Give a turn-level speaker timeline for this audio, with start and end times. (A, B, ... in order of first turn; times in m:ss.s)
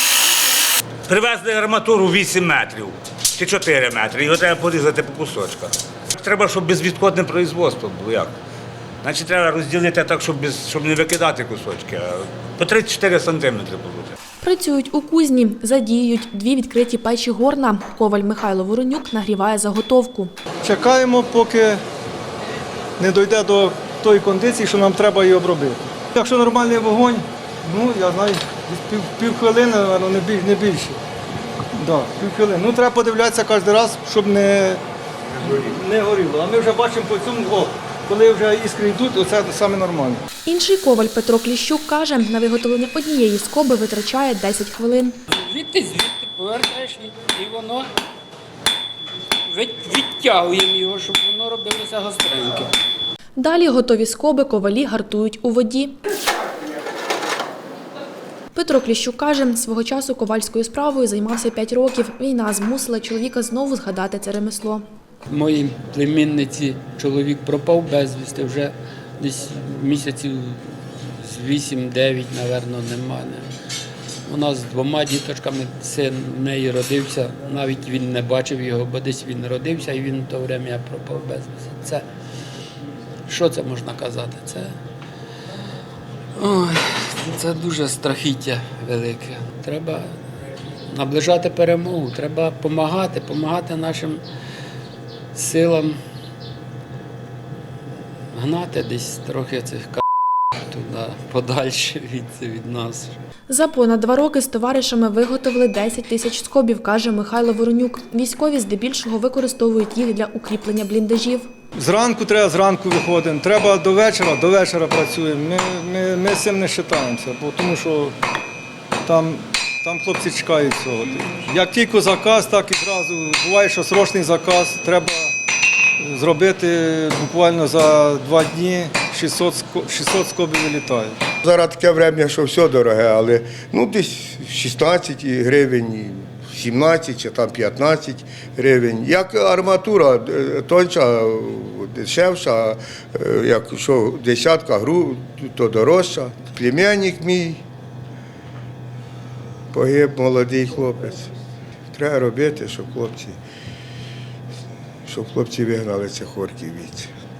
0:01.1-0:08.3 A
0:09.0-0:14.2 A
0:14.4-0:20.3 B
0:20.6-0:21.8 C
0:23.0-0:31.0 C
0:31.8-0:34.8 C
0:35.4-0:40.2 C
0:40.4-0:45.2 B
0:45.3-0:47.9 D
0:49.4-0:52.7 D
0:53.4-0:56.0 B
0:58.5-1:04.8 B
1:05.3-1:13.5 D
1:14.3-1:22.0 D
1:23.3-1:24.8 D
1:26.4-1:30.2 D
1:30.8-1:34.2 D
1:35.3-1:36.0 D
1:38.3-1:40.0 D
1:40.7-1:43.2 D
1:43.5-1:51.5 B
1:51.7-1:58.1 C
1:59.0-2:05.4 C
2:06.0-2:11.2 C
2:11.4-2:27.6 E
2:29.7-2:31.3 E
2:31.9-2:33.4 E
2:35.0-2:37.1 E